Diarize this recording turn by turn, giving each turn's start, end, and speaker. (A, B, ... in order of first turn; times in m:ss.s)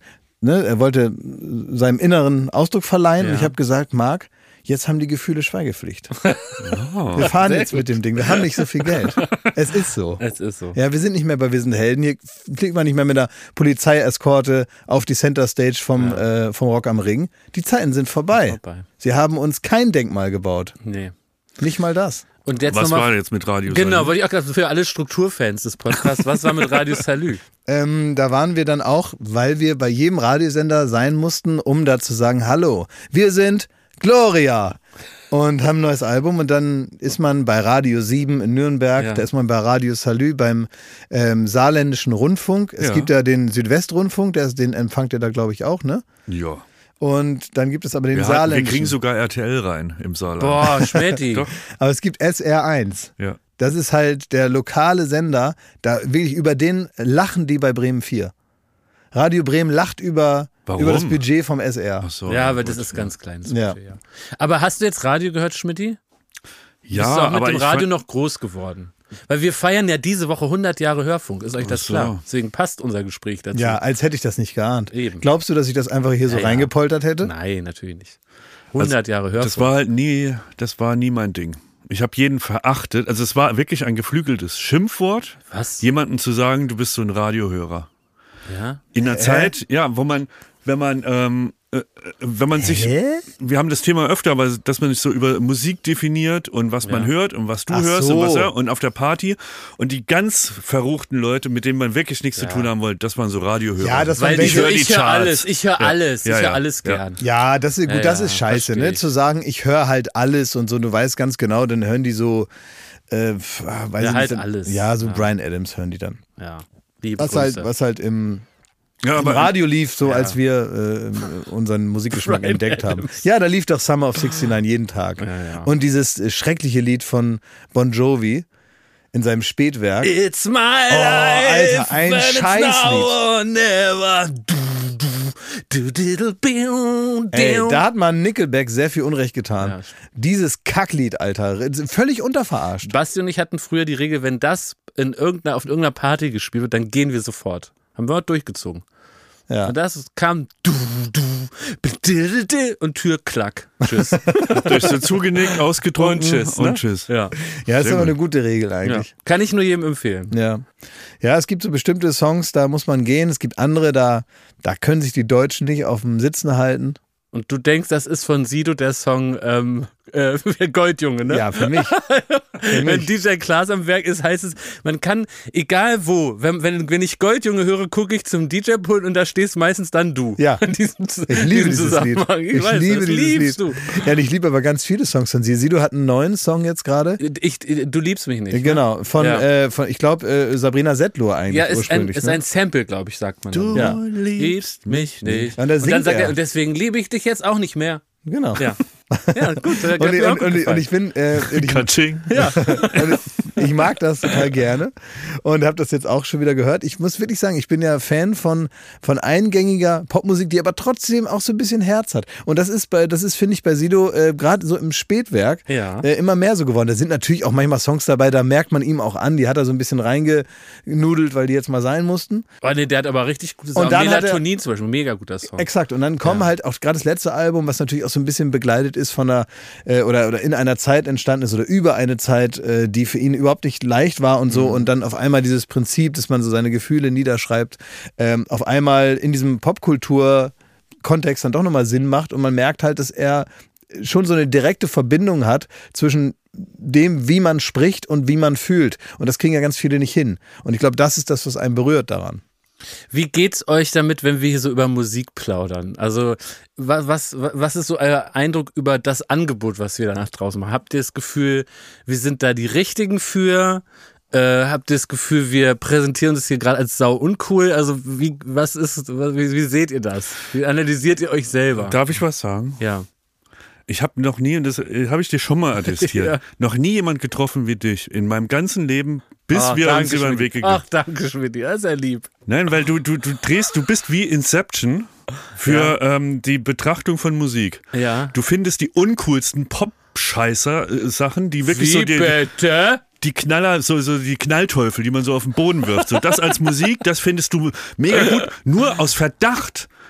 0:00.4-0:06.1 A
0:03.2-0:03.5 B
0:06.2-0:06.6 B
0:06.6-0:07.3 C
0:07.2-0:10.2 A
0:07.2-0:09.4 B
0:10.2-0:10.8 B
0:10.7-0:20.7 A
0:16.0-0:16.2 B
0:18.4-0:18.8 B
0:20.8-0:21.1 B
0:21.6-0:22.2 A
0:22.4-0:23.1 B
0:22.7-0:24.1 C
0:23.7-0:27.4 B
0:27.7-0:34.8 A
0:35.3-0:46.0 A
0:39.0-0:39.2 B
0:42.8-0:43.1 C
0:46.3-0:46.6 C
0:47.0-0:49.0 A
0:48.1-0:51.5 C
0:50.4-0:51.4 B
0:51.6-0:58.3 A
0:59.1-1:02.1 A
1:00.7-1:01.2 C
1:02.0-1:03.1 C
1:02.3-1:06.0 B
1:03.5-1:03.8 A
1:06.8-1:07.9 C
1:06.9-1:13.8 B
1:11.6-1:12.2 C
1:13.5-1:17.3 A
1:14.9-1:15.2 B
1:16.2-1:18.2 B
1:18.7-1:19.7 B
1:18.8-1:27.9 C
1:25.5-1:25.8 B
1:28.5-1:28.8 B
1:28.9-1:47.0 C
1:29.0-1:29.5 A
1:32.6-1:33.2 A
1:36.8-1:37.1 B
1:37.7-1:38.5 A
1:42.4-1:42.7 B
1:43.8-1:44.8 A
1:44.2-1:47.2 B
1:47.2-1:52.5 A
1:47.8-1:49.0 B
1:53.1-1:56.2 A
1:54.0-1:55.3 B
1:56.4-1:57.7 B
1:57.2-1:58.4 A
1:59.0-1:59.5 C
1:59.2-2:08.4 A
2:00.0-2:00.4 B
2:02.1-2:03.2 B
2:05.2-2:05.7 B
2:09.1-2:10.1 A
2:10.0-2:17.8 B
2:10.9-2:13.1 A
2:17.3-2:22.9 A
2:19.6-2:19.9 B
2:22.8-2:28.8 B
2:29.5-2:29.7 A
2:29.6-2:35.0 B
2:34.1-2:34.7 A
2:34.5-2:37.1 C
2:36.0-2:37.3 B
2:37.6-2:39.1 A
2:37.8-2:38.1 C
2:38.8-2:40.3 B
2:40.3-2:40.6 A
2:41.2-2:47.0 A
2:47.3-3:04.0 B
2:51.3-2:51.9 A
2:52.7-2:53.1 A
3:00.4-3:00.6 A
3:01.3-3:07.2 A
3:07.2-3:09.4 B
3:08.5-3:12.4 A
3:11.5-3:18.0 B
3:13.5-3:15.5 C
3:13.7-3:14.0 A
3:15.5-3:16.3 A
3:18.2-3:42.4 A
3:19.3-3:20.9 B
3:21.4-3:23.2 C
3:22.3-3:23.1 B
3:35.7-3:36.1 B
3:42.6-3:45.7 B
3:43.8-3:44.4 A
3:45.6-4:12.4 A
3:46.2-3:46.5 B
3:54.5-3:54.8 B
4:13.1-4:32.0 B
4:31.8-4:32.8 C
4:32.8-4:33.0 B
4:33.9-4:40.8 C
4:35.9-4:36.4 B
4:39.5-4:42.3 B
4:42.5-4:52.4 C
4:45.6-4:46.0 B
4:47.9-4:48.3 B
4:51.6-4:53.0 B
4:53.2-4:59.9 C